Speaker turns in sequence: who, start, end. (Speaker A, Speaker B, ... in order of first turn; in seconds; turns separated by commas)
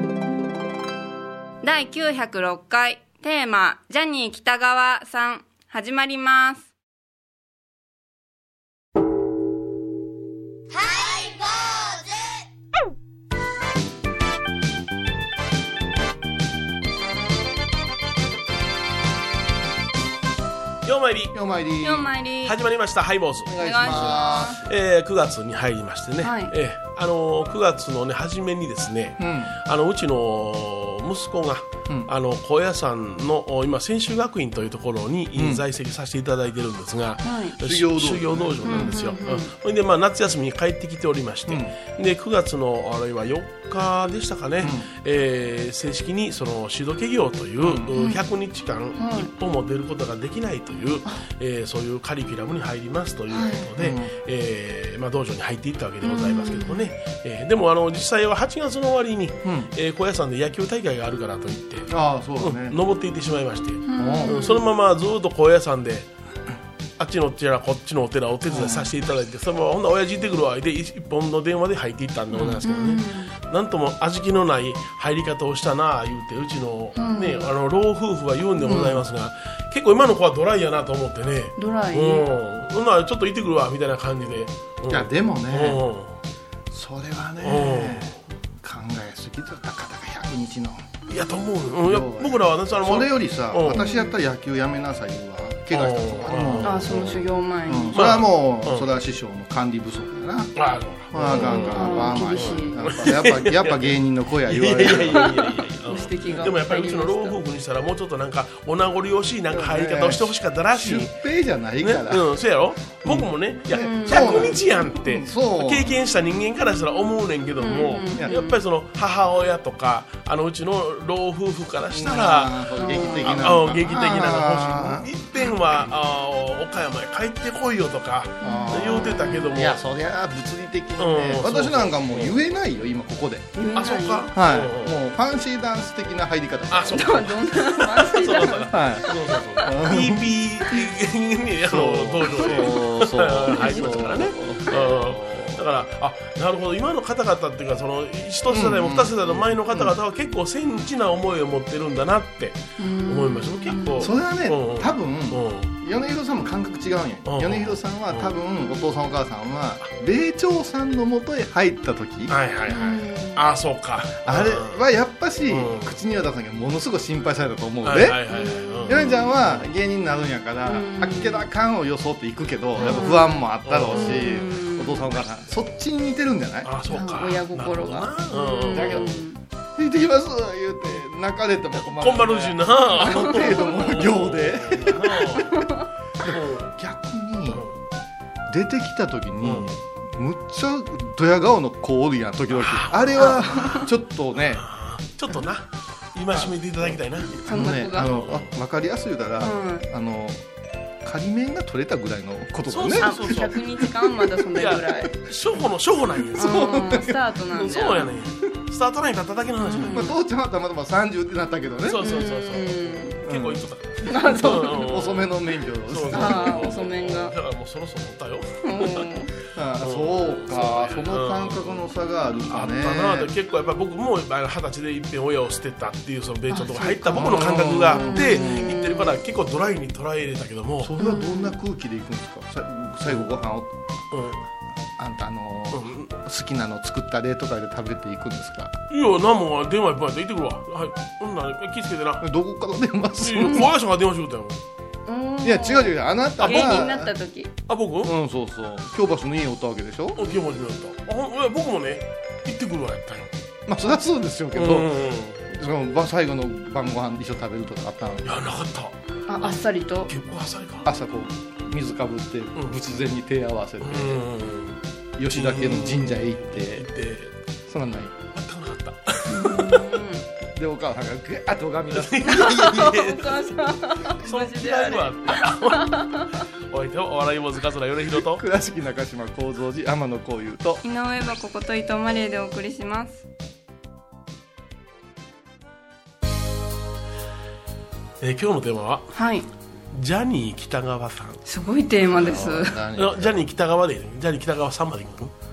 Speaker A: 1.6-6.7, Speaker B: 20.9-21.3, Speaker C: 21.3-22.1, Speaker A: 21.8-22.6, Speaker B: 22.4-61.9, Speaker C: 23.5-24.7, Speaker A: 23.5-24.6, Speaker A: 26.2-26.5, Speaker C: 29.2-29.6, Speaker C: 35.4-35.6, Speaker A: 37.2-37.6, Speaker C: 37.6-39.1, Speaker A: 38.6-39.5, Speaker C: 41.5-41.7, Speaker C: 44.6-44.9, Speaker C: 47.6-47.9, Speaker A: 48.0-48.2, Speaker A: 49.0-49.3, Speaker A: 53.3-53.7, Speaker C: 53.8-54.1, Speaker A: 56.0-56.9, Speaker C: 59.4-59.7, Speaker C: 61.9-62.8, Speaker B: 62.4-66.1, Speaker A: 63.9-64.6, Speaker C: 64.0-64.4, Speaker B: 67.0-86.2, Speaker C: 68.5-68.9, Speaker C: 72.3-72.6, Speaker A: 72.6-73.3, Speaker A: 77.0-77.5, Speaker C: 78.6-79.0, Speaker A: 81.6-82.3, Speaker C: 84.9-85.8, Speaker C: 86.7-90.9, Speaker B: 87.4-88.2, Speaker B: 91.1-93.8, Speaker C: 91.9-105.6, Speaker A: 93.7-94.2, Speaker B: 95.7-97.2, Speaker A: 96.6-98.0, Speaker B: 97.9-98.9, Speaker B: 100.6-111.1, Speaker A: 101.4-102.8, Speaker A: 105.0-107.4, Speaker C: 109.5-112.3, Speaker B: 111.8-122.7, Speaker C: 113.0-116.0, Speaker A: 113.7-114.5, Speaker A: 117.6-118.6, Speaker C: 121.9-125.9, Speaker A: 122.8-123.5, Speaker B: 123.2-129.8, Speaker C: 128.4-133.5, Speaker A: 128.4-129.5, Speaker B: 131.0-132.4, Speaker A: 133.6-134.3, Speaker B: 133.8-135.0, Speaker C: 134.3-137.3, Speaker B: 136.7-155.7, Speaker A: 136.9-139.1, Speaker C: 138.4-140.3, Speaker C: 141.6-145.6, Speaker A: 142.4-142.7, Speaker A: 143.6-143.9, Speaker C: 148.5-150.0, Speaker A: 152.8-154.1, Speaker C: 154.0-162.4, Speaker B: 157.3-158.3, Speaker B: 162.3-164.8, Speaker A: 162.7-163.4, Speaker C: 164.2-168.2, Speaker B: 165.5-166.0, Speaker B: 167.8-169.7, Speaker A: 168.3-169.3, Speaker C: 168.9-176.7, Speaker A: 170.7-171.5, Speaker B: 172.8-173.1, Speaker A: 172.8-175.1, Speaker B: 173.7-174.4, Speaker B: 176.7-179.1, Speaker A: 176.9-179.4, Speaker C: 178.7-179.1, Speaker C: 179.8-185.4, Speaker B: 181.7-185.6, Speaker A: 183.0-183.7, Speaker A: 185.5-185.8, Speaker C: 186.2-187.7, Speaker B: 186.2-186.7, Speaker C: 188.5-194.7, Speaker B: 192.5-193.8, Speaker A: 193.2-193.8, Speaker B: 194.4-197.5, Speaker C: 197.3-200.4, Speaker A: 197.5-198.1, Speaker B: 198.1-198.5, Speaker A: 199.4-199.9, Speaker C: 201.0-203.5, Speaker B: 202.7-203.8, Speaker A: 203.0-205.1, Speaker B: 204.5-206.9, Speaker C: 206.3-207.3, Speaker A: 206.4-208.1, Speaker B: 207.5-210.1, Speaker A: 209.7-210.2, Speaker C: 209.8-212.2, Speaker B: 211.8-219.1, Speaker A: 212.0-213.2, Speaker C: 213.2-213.7, Speaker A: 214.1-214.8, Speaker C: 214.4-216.7, Speaker A: 216.1-217.3, Speaker A: 218.6-219.3, Speaker C: 219.5-223.3, Speaker B: 219.8-221.8, Speaker B: 222.4-230.9, Speaker A: 226.5-229.1, Speaker C: 227.1-228.8, Speaker C: 230.8-233.8, Speaker A: 231.0-231.6, Speaker B: 234.1-234.4, Speaker C: 235.0-238.8, Speaker B: 235.7-236.1, Speaker B: 238.9-242.3, Speaker C: 242.2-243.7, Speaker B: 243.2-244.6, Speaker A: 245.1-247.5, Speaker C: 245.4-247.1, Speaker B: 246.4-246.9, Speaker B: 247.7-248.1, Speaker C: 248.0-250.2, Speaker B: 250.2-253.3, Speaker C: 253.7-258.4, Speaker B: 254.5-255.4, Speaker B: 258.2-260.9, Speaker A: 259.3-260.1, Speaker C: 260.9-264.3, Speaker B: 263.8-267.3, Speaker C: 265.2-266.9, Speaker C: 267.7-268.1, Speaker B: 268.4-269.9, Speaker A: 269.3-270.2, Speaker C: 270.6-272.9, Speaker B: 271.9-278.4, Speaker A: 272.4-276.2, Speaker C: 278.1-280.8, Speaker A: 280.8-283.2, Speaker B: 288.2-289.1, Speaker A: 289.1-289.5, Speaker B: 289.9-291.4, Speaker A: 291.5-292.8, Speaker C: 292.1-293.4, Speaker B: 292.1-295.3